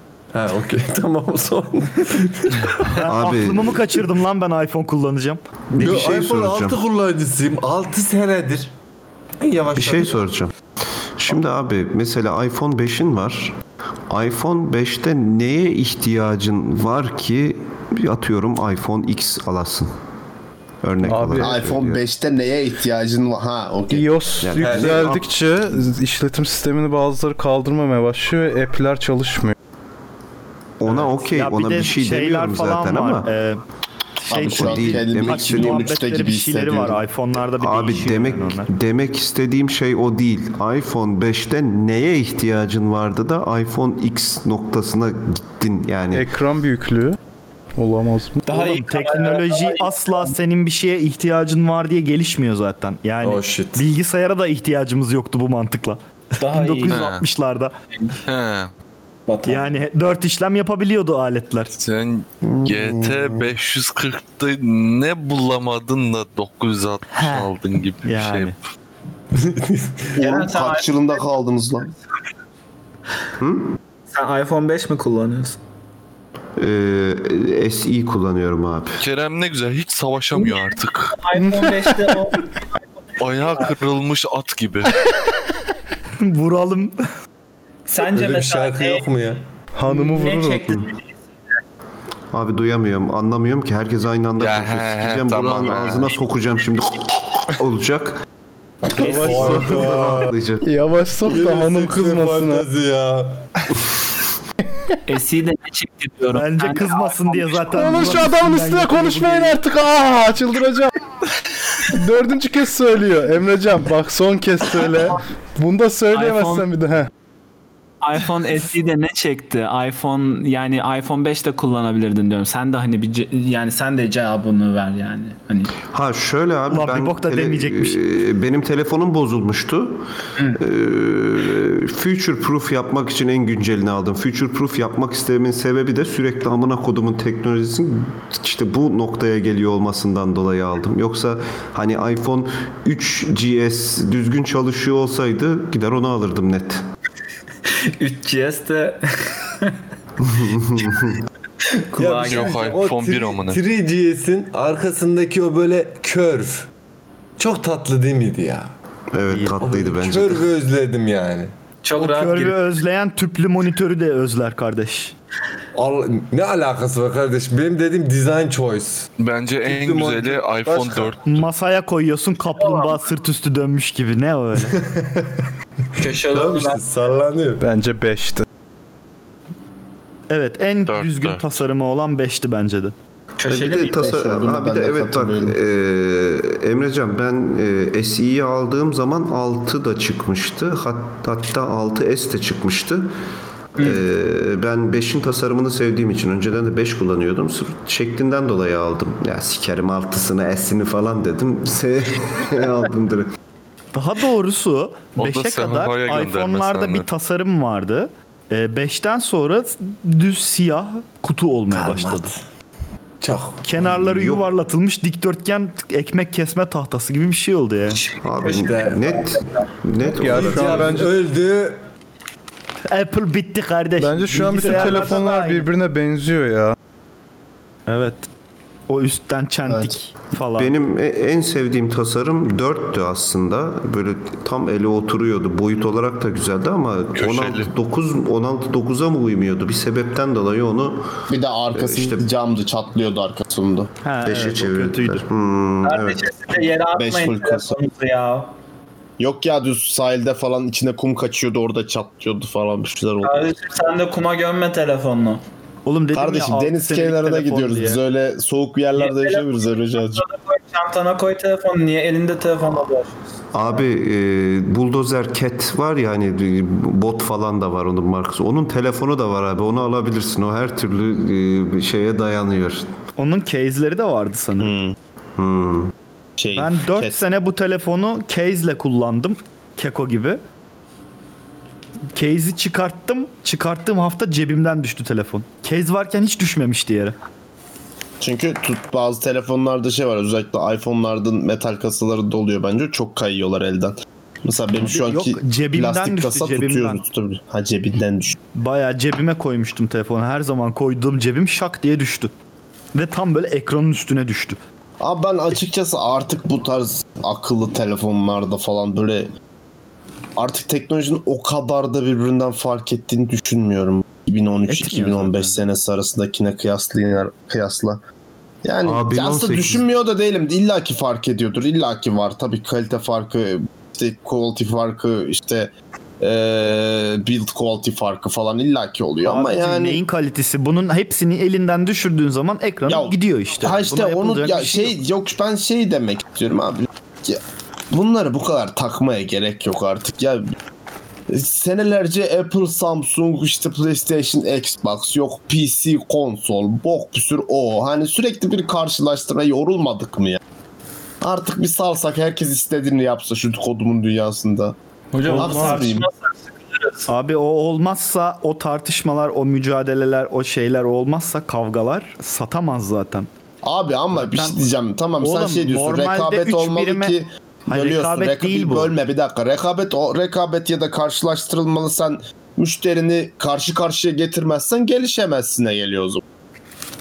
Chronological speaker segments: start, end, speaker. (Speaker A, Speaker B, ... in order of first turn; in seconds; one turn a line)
Speaker A: 0.3-3.0
Speaker B: 2.9-5.4
Speaker C: 3.0-3.9
Speaker C: 5.8-6.8
Speaker A: 5.8-8.7
Speaker A: 9.4-10.2
Speaker C: 9.8-10.5
Speaker C: 11.2-13.6
Speaker C: 14.1-19.9
Speaker C: 20.8-22.0
Speaker D: 21.0-21.6
Speaker E: 21.4-24.1
Speaker D: 23.9-29.6
Speaker C: 24.4-25.1
Speaker A: 24.6-25.2
Speaker C: 30.8-33.3
Speaker B: 31.3-33.6
Speaker B: 34.2-38.7
Speaker E: 34.3-37.0
Speaker C: 34.3-35.9
Speaker C: 37.6-46.3
Speaker D: 46.1-47.2
Speaker D: 47.8-48.5
Speaker F: 48.5-50.1
Speaker B: 48.5-57.7
Speaker A: 53.2-53.9
Speaker F: 56.4-57.0
Speaker G: 56.9-57.2
Speaker G: 58.2-58.7
Speaker F: 59.3-59.7
Speaker B: 59.5-61.8
Speaker G: 61.8-68.6
Speaker E: 62.6-63.2
Speaker B: 67.2-67.5
Speaker B: 68.0-68.6
Speaker A: 69.3-70.1
Speaker F: 70.2-71.2
Speaker E: 70.2-71.9
Speaker C: 73.4-73.8
Speaker F: 74.1-75.6
Speaker C: 76.6-79.0
Speaker G: 79.0-81.2
Speaker F: 81.2-82.5
Speaker G: 83.2-85.0
Speaker B: 86.2-87.0
Speaker F: 87.9-89.1
Speaker A: 88.1-89.4
Speaker D: 89.7-90.9
Speaker F: 89.9-91.0
Speaker C: 92.3-98.2
Speaker G: 94.4-96.2
Speaker A: 98.9-100.3
Speaker D: 99.0-100.1
Speaker C: 99.0-100.7
Speaker D: 100.6-102.7
Speaker A: 101.2-103.5
Speaker F: 105.1-107.7
Speaker B: 106.3-109.6
Speaker D: 107.7-111.0
Speaker D: 111.8-117.1
Speaker F: 116.1-116.7
Speaker F: 118.0-125.7
Speaker C: 125.9-130.0
Speaker B: 126.7-128.0
Speaker C: 130.6-146.8
Speaker F: 147.7-149.8
Speaker C: 150.2-151.2
Speaker F: 151.9-152.7
Speaker A: 151.9-156.7
Speaker G: 152.2-153.6
Speaker A: 157.4-158.7
Speaker C: 159.1-160.5
Speaker B: 159.3-159.6
Speaker A: 159.6-161.5
Speaker F: 161.8-162.6
Speaker B: 162.0-165.2
Speaker A: 165.7-169.1
Speaker G: 169.2-171.4
Speaker A: 169.7-171.2
Speaker B: 171.2-174.8
Speaker F: 172.6-172.9
Speaker A: 174.7-175.5
Speaker F: 176.0-176.8
Speaker A: 176.2-177.6
Speaker D: 177.6-178.4
Speaker B: 180.3-182.9
Speaker G: 180.9-181.6
Speaker F: 183.4-184.1
Speaker C: 183.5-193.1
Speaker E: 184.0-185.6
Speaker C: 193.8-203.3
Speaker B: 203.9-212.3
Speaker G: 205.2-207.1
Speaker A: 211.7-212.4
Speaker A: 213.2-213.7
Speaker B: 213.6-218.0
Speaker C: 214.1-214.4
Speaker F: 217.9-219.7
Speaker C: 218.2-221.1
Speaker A: 218.6-219.1
Speaker D: 220.0-221.2
Speaker A: 220.2-221.8
Speaker B: 222.9-225.7
Speaker D: 224.0-226.8
Speaker B: 227.9-228.3
Speaker B: 228.9-230.7
Speaker E: 229.7-229.9
Speaker C: 230.6-241.1
Speaker G: 237.2-237.7
Speaker E: 241.3-243.9
Speaker C: 241.7-242.2
Speaker B: 244.0-245.2
Speaker C: 244.2-246.2
Speaker F: 245.8-248.6
Speaker E: 246.9-247.8
Speaker E: 249.2-253.5
Speaker F: 253.2-255.4
Speaker B: 255.9-258.0
Speaker E: 256.1-260.2
Speaker F: 259.0-263.2
Speaker C: 263.5-272.9
Speaker B: 273.2-274.7
Speaker E: 274.6-275.0
Speaker C: 275.4-275.9
Speaker E: 276.4-277.2
Speaker B: 276.5-280.4
Speaker B: 282.1-287.2
Speaker E: 288.2-298.4
Speaker B: 294.9-297.0
Speaker B: 298.6-302.3
Speaker B: 302.9-304.6
Speaker E: 305.0-309.3
Speaker E: 310.4-318.0
Speaker B: 314.7-315.6
Speaker E: 318.6-330.0
Speaker C: 318.8-319.8
Speaker B: 329.2-335.0
Speaker E: 332.9-337.4
Speaker E: 337.9-340.5
Speaker E: 341.3-350.4
Speaker E: 351.2-354.8
Speaker F: 355.1-357.1
Speaker D: 355.3-355.8
Speaker E: 355.3-356.1
Speaker B: 357.1-363.3
Speaker E: 363.6-376.2
Speaker B: 364.1-364.6
Speaker B: 365.2-367.1
Speaker B: 367.7-368.9